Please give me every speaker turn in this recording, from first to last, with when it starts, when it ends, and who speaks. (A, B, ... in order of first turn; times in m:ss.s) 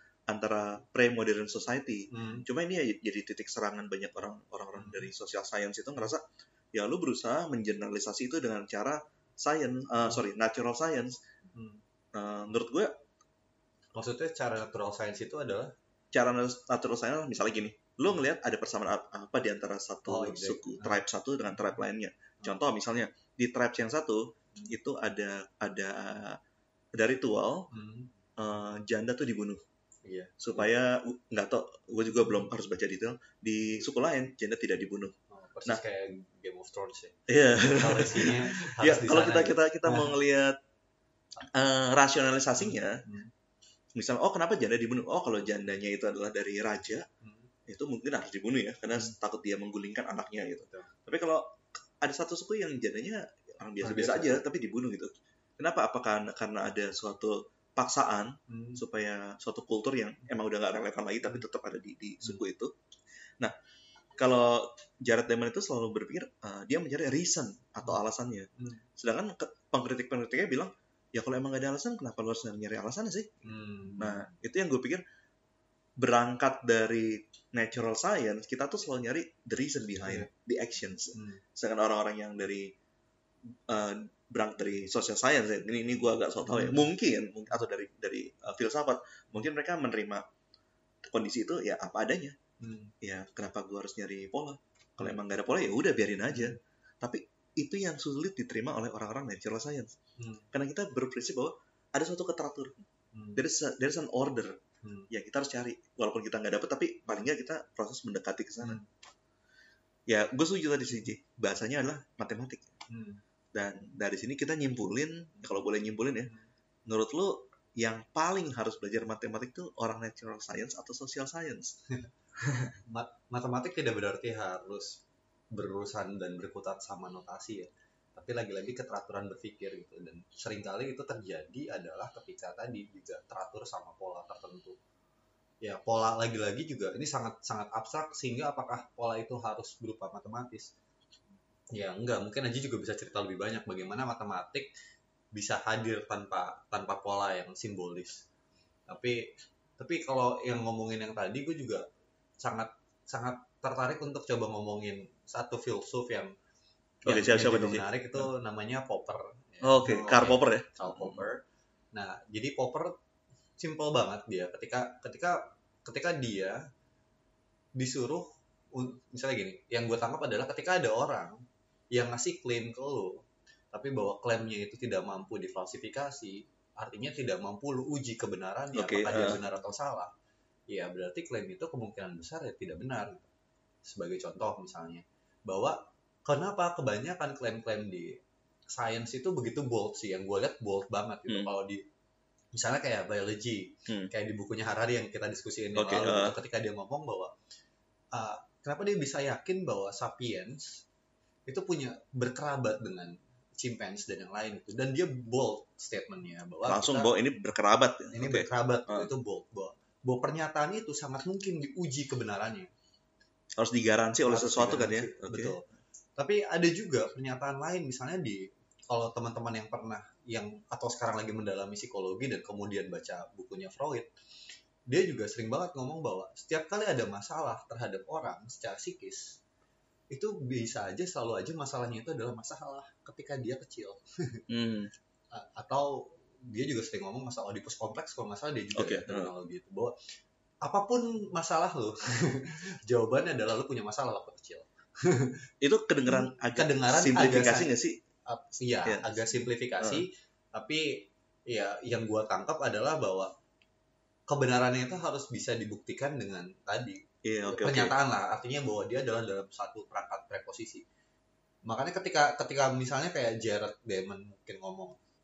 0:00.3-0:11.2 A
0:02.1-0:02.5 B
0:04.8-0:05.1 B
0:11.5-0:11.8 B
0:12.1-0:13.0 A
0:14.0-0:15.7 B
0:16.1-0:26.4 A
0:20.1-0:21.0 B
0:26.9-0:27.7 A
0:27.7-0:28.1 B
0:28.4-0:29.6 A
0:30.0-0:30.7 B
0:30.4-0:35.2 A
0:35.3-0:40.2 B
0:37.3-0:40.6 A
0:41.4-0:43.0 A
0:42.6-0:43.3 B
0:44.0-0:47.1 A
0:47.2-0:47.5 B
0:47.7-1:02.7 A
0:53.8-0:54.4 B
0:58.5-0:58.8 B
1:04.2-1:15.0 A
1:08.6-1:08.8 B
1:13.4-1:14.3 B
1:16.0-1:22.7 A
1:21.1-1:21.4 B
1:23.7-1:30.2 A
1:26.4-1:26.8 B
1:31.0-1:32.4 A
1:32.6-1:32.9 B
1:33.0-1:40.0 A
1:36.3-1:36.6 B
1:40.2-1:40.5 B
1:40.5-1:42.8 A
1:43.1-1:43.4 B
1:43.4-1:44.6 A
1:44.8-1:45.1 B
1:45.1-1:48.8 A
1:48.6-1:48.9 B
1:50.1-1:52.7 A
1:52.9-1:53.2 B
1:53.5-1:56.3 A
1:56.9-2:01.8 A
2:02.9-2:14.8 B
2:15.6-2:20.7 B
2:21.7-2:24.7 B
2:25.3-2:28.2 B
2:28.9-2:31.9 B
2:32.4-2:36.4 B
2:37.0-2:38.3 A
2:37.1-2:43.0 B
2:39.6-2:41.3 A
2:43.6-2:46.7 B
2:47.8-3:00.1 B
2:58.7-2:59.4 A
3:00.7-3:03.3 B
3:03.8-3:11.9 B
3:12.5-3:17.3 B
3:13.9-3:14.1 A
3:15.8-3:16.4 A
3:18.1-3:20.8 B
3:21.5-3:27.1 B
3:26.6-3:29.1 A
3:28.1-3:32.7 B
3:33.6-3:35.6 A
3:34.3-3:35.6 B
3:36.2-3:44.1 B
3:44.9-3:49.4 B
3:50.1-3:54.4 B
3:54.5-3:54.9 A
3:55.3-4:00.0 B
3:58.8-3:59.3 A
4:00.6-4:05.5 B
4:05.6-4:08.0 A
4:06.1-4:07.8 B
4:08.3-4:13.4 B
4:08.9-4:09.1 A
4:14.3-4:20.8 B
4:17.2-4:18.0 A
4:21.6-4:25.0 B